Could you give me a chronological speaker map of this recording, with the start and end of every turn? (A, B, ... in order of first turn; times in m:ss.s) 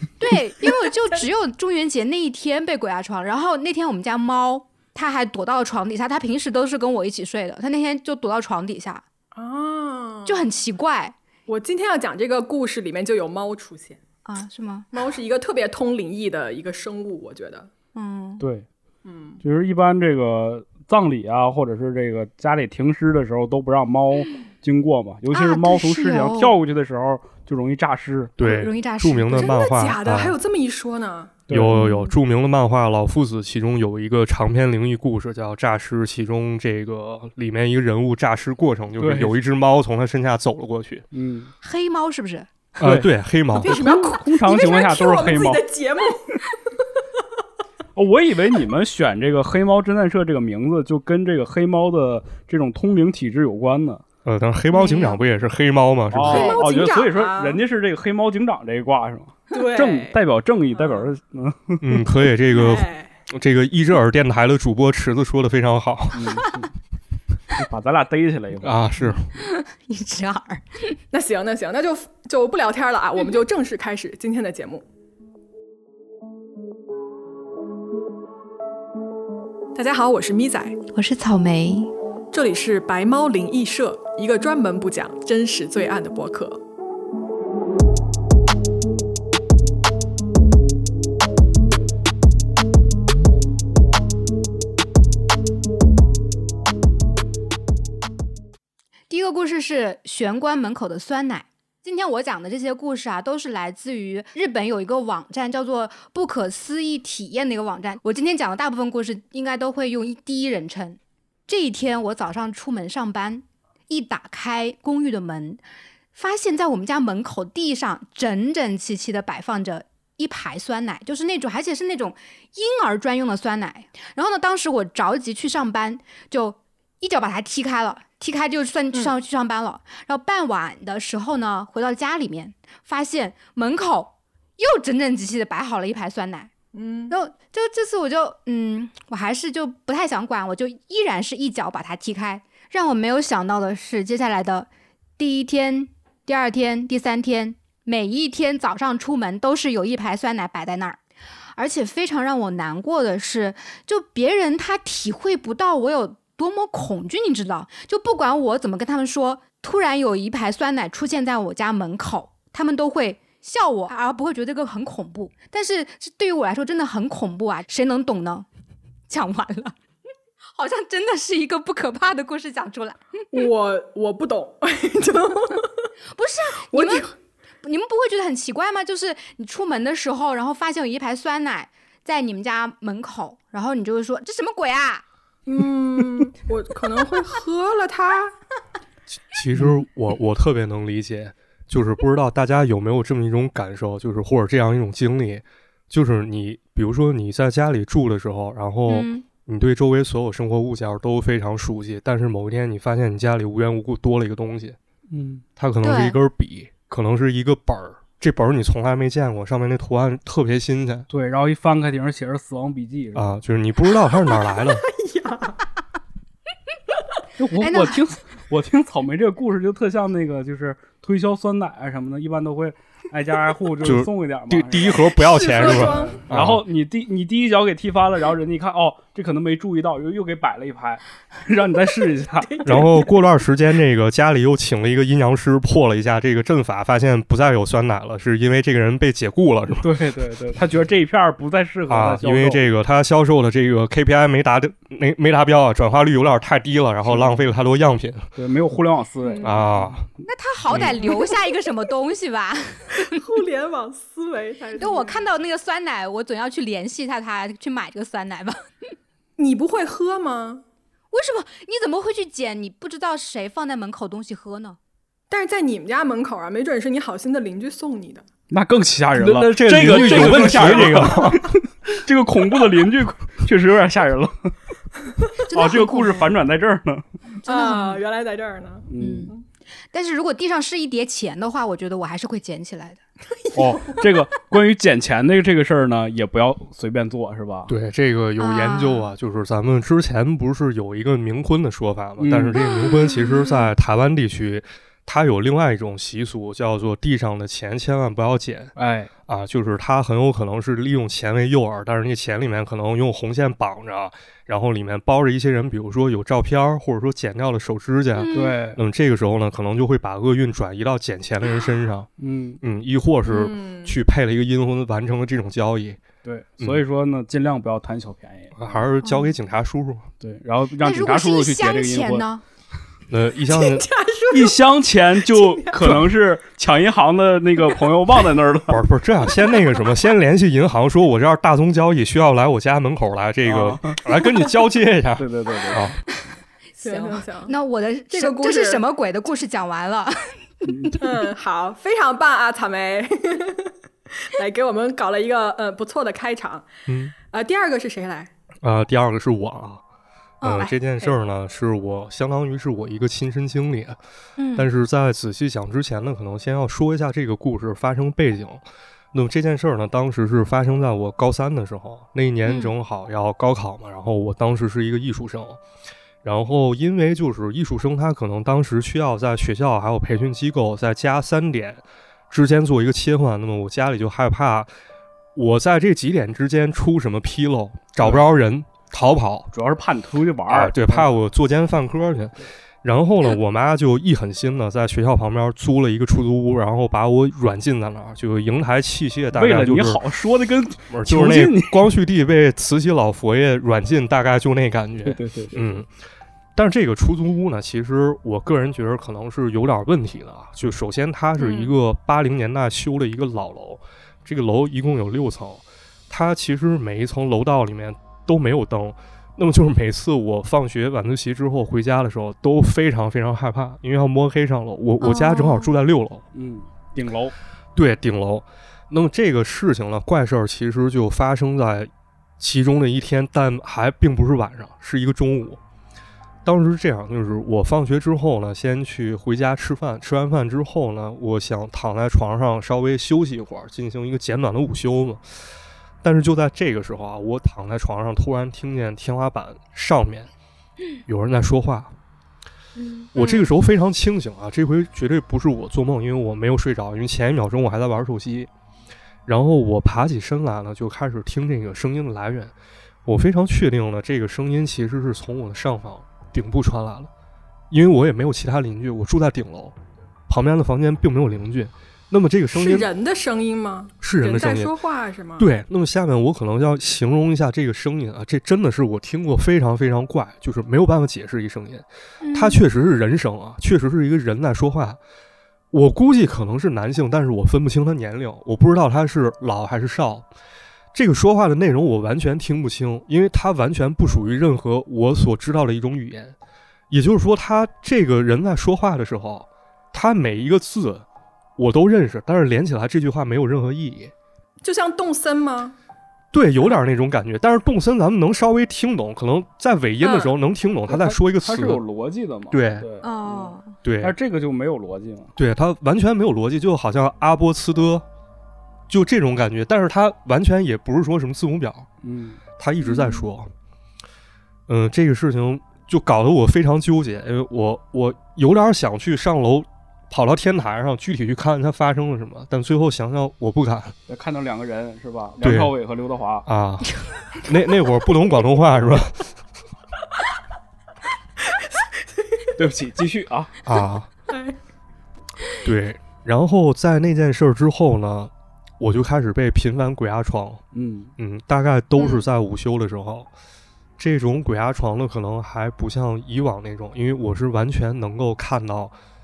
0:00.2-0:09.0 A
0:09.3-0:10.5 B
0:10.3-0:11.2 A
0:11.5-0:14.0 B
0:14.2-0:14.9 A
0:14.9-0:17.7 B
0:18.0-0:18.4 A
0:18.4-0:18.7 C
0:19.0-0:19.4 B
0:19.4-0:28.4 C
0:25.3-0:26.6 A
0:28.4-0:30.4 D
0:28.4-0:29.6 A
0:29.3-0:31.4 B
0:31.5-0:31.8 C
0:31.5-0:41.1 D
0:31.7-0:32.1 A
0:39.0-0:39.4 C
0:41.1-0:41.5 C
0:41.6-0:42.5 A
0:42.8-0:43.1 C
0:42.8-0:43.8 D
0:43.6-0:46.4 B
0:43.6-0:45.6 C
0:48.0-0:54.0 C
0:54.2-0:56.6 D
0:54.7-0:55.2 B
0:56.1-1:02.0 C
0:56.2-0:57.6 B
0:56.3-0:56.6 A
0:59.5-1:00.2 B
1:00.7-1:01.1 B
1:01.8-1:06.4 D
1:02.5-1:03.1 B
1:06.1-1:06.7 C
1:07.5-1:09.2 C
1:08.6-1:09.3 D
1:09.4-1:11.0 A
1:11.1-1:14.8 B
1:19.8-1:20.8 B
1:20.9-1:21.9 A
1:22.3-1:26.6 B
1:39.1-1:55.6 A
1:56.1-2:16.5 A
2:16.7-2:17.2 B
2:17.1-2:31.0 A
2:31.6-2:48.5 A
2:49.1-2:49.8 A
2:50.6-2:53.3 A
2:53.3-2:55.7 B
2:56.1-2:57.1 A
2:56.7-2:57.1 B
2:57.6-3:05.0 A
3:05.5-3:08.3 B
3:09.3-3:24.8 D
3:09.6-3:09.8 C
3:18.9-3:19.2 A
3:25.1-3:25.4 C
3:25.6-3:31.1 D
3:25.8-3:26.2 A
3:31.1-3:33.4 C
3:33.2-3:34.8 D
3:34.3-3:35.6 B
3:37.4-3:52.8 C
3:37.6-3:38.0 A
3:43.8-3:46.6 D
3:45.1-3:46.2 B
3:52.3-3:53.1 B
3:52.7-3:59.9 D
3:59.8-4:02.6 C
4:01.9-4:08.3 D
4:07.0-4:07.4 C
4:08.4-4:10.1 C
4:09.4-4:10.0 D
4:10.3-4:13.2 A
4:13.0-4:15.2 B
4:14.8-4:18.6 A
4:19.4-4:20.6 B
4:21.1-4:24.8 A
4:25.3-4:28.3 B
4:28.5-4:34.6 C
4:29.1-4:31.5 D
4:35.4-4:37.1 C
4:35.5-4:36.3 A
4:37.4-4:38.0 A
4:37.4-4:39.4 B
4:38.9-4:39.3 C
4:39.0-4:39.3 A
4:39.9-4:43.0 A
4:43.5-4:47.7 C
4:47.7-4:58.8 D
4:48.4-4:49.1 A
4:52.2-4:52.6 C
4:52.8-4:53.6 A
4:58.8-4:59.1 C
4:59.3-5:12.1 D
5:08.2-5:08.5 A
5:08.3-5:08.8 C
5:12.2-5:12.6 C
5:12.6-5:16.0 D
5:13.3-5:14.0 B
5:16.2-5:18.8 C
5:18.6-5:20.1 D
5:19.0-5:19.3 A
5:20.2-5:22.3 C
5:20.8-5:22.4 A
5:23.1-5:23.9 D
5:23.5-5:24.6 B
5:24.3-5:28.8 C
5:25.2-5:26.1 B
5:28.7-5:36.0 D
5:33.5-5:34.0 C
5:35.2-5:35.9 C
5:36.8-5:41.1 A
5:36.8-5:37.5 B
5:38.1-5:38.8 B
5:40.6-5:41.0 C
5:41.0-5:43.7 B
5:44.3-5:46.7 B
5:46.9-5:47.1 D
5:47.3-5:48.3 B
5:48.6-5:49.8 D
5:50.4-5:50.7 A
5:50.4-5:54.0 D
5:50.7-5:51.2 B
5:54.4-5:54.7 A
5:54.6-6:05.6 D
6:02.5-6:02.7 A
6:06.2-6:14.7 D
6:15.4-6:19.5 D
6:18.0-6:18.3 C
6:19.5-6:21.1 C
6:20.5-6:30.0 D
6:29.3-6:31.9 C
6:30.9-6:35.9 D
6:35.0-6:35.8 C
6:36.6-6:56.3 D
6:41.4-6:41.7 A
6:55.0-6:55.7 A
6:56.3-6:57.4 C
6:57.8-7:05.6 D
7:06.4-7:15.2 D
7:16.0-7:20.3 D
7:21.1-7:21.9 D
7:22.8-7:23.5 A
7:23.1-7:28.5 D
7:29.3-7:32.5 D
7:33.1-7:37.1 D
7:37.7-7:39.8 D
7:40.3-7:42.9 D
7:42.5-7:45.5 B
7:44.0-7:44.7 D
7:45.4-7:55.0 D
7:52.2-7:52.6 A
7:55.7-8:00.3 D
8:00.9-8:06.4 D
8:06.9-8:11.1 D
8:11.6-8:14.1 D
8:14.6-8:15.8 B
8:16.3-8:21.8 D
8:20.0-8:20.4 B
8:20.9-8:25.4 C
8:22.5-8:22.9 D
8:23.0-8:23.7 A
8:23.8-8:24.2 D
8:25.4-8:28.0 D
8:28.9-8:31.9 D
8:32.0-8:32.4 C
8:32.6-8:33.5 D
8:32.8-8:33.2 A
8:34.7-8:44.0 D
8:44.1-8:46.5 C
8:45.4-8:45.7 D
8:46.4-8:49.3 D
8:52.6-8:53.6 C
8:53.6-8:54.1 D
8:54.3-8:54.6 B
8:55.6-9:00.6 D
9:00.7-9:01.1 C
9:01.2-9:03.3 D
9:04.0-9:09.0 D